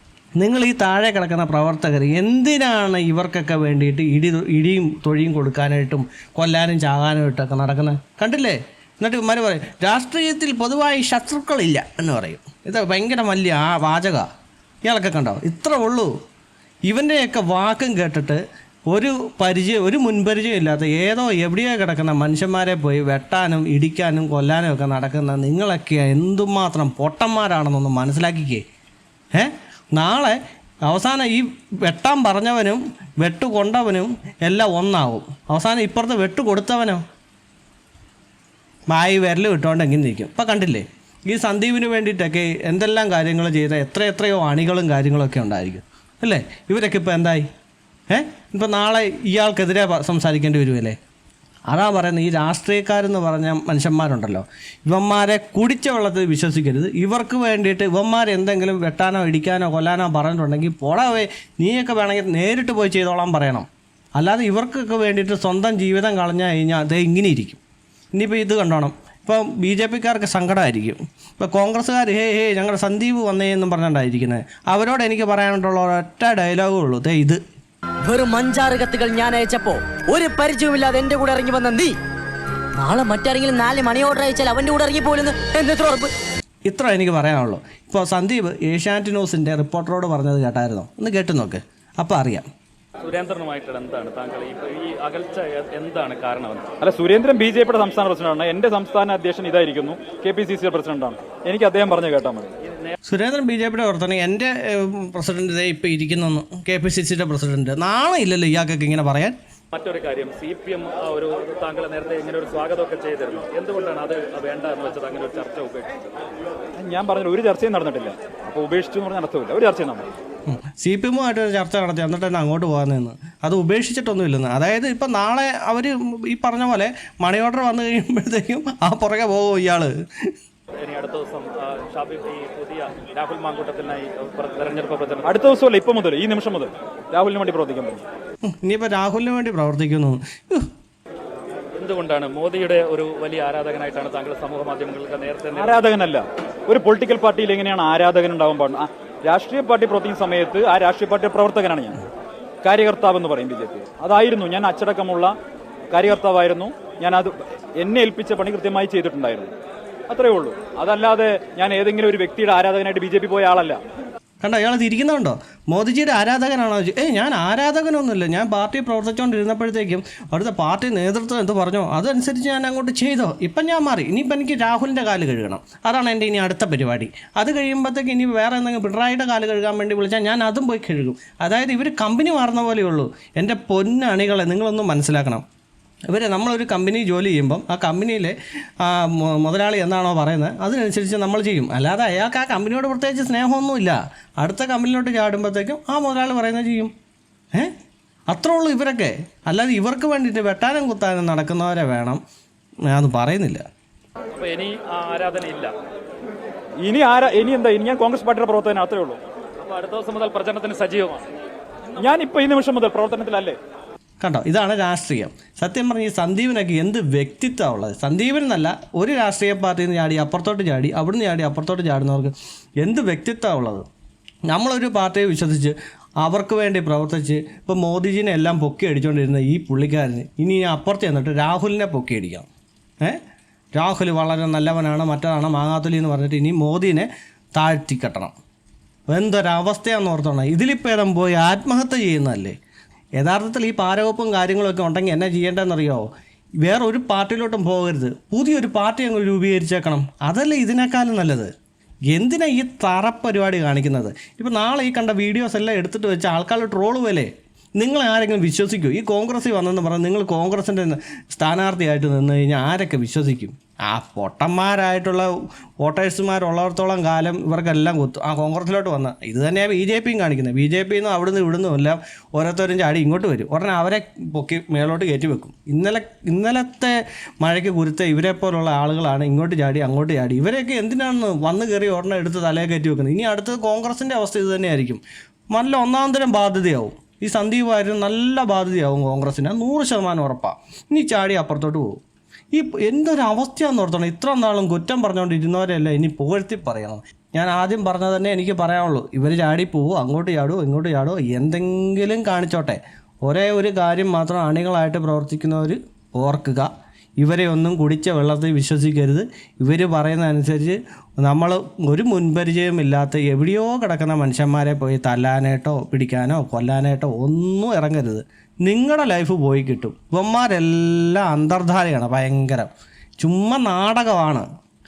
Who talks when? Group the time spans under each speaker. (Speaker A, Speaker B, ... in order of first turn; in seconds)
Speaker A: 0.4-14.3, 14.8-16.1, 16.9-28.6, 29.3-37.0, 38.9-47.5, 48.1-51.0, 51.7-67.6, 68.2-77.4, 86.7-92.5, 103.1-109.4, 120.5-130.3, 138.5-140.7, 164.4-185.4, 186.1-196.9, 198.3-202.2, 202.9-203.6, 214.2-223.9, 224.5-232.5, 233.8-238.3, 239.1-242.6, 243.2-246.1, 246.6-251.5, 252.1-285.0, 285.5-292.0, 292.5-324.5
Speaker B: 78.0-82.0, 82.8-86.1
Speaker C: 93.0-96.7, 102.6-103.0, 109.7-115.9, 130.8-135.3, 141.8-145.8, 204.4-205.7, 209.6-211.3
Speaker D: 96.8-102.5, 116.8-120.1, 135.2-138.0, 145.6-152.0, 152.6-155.3, 155.9-159.5, 160.1-163.8, 206.8-209.2, 212.0-213.6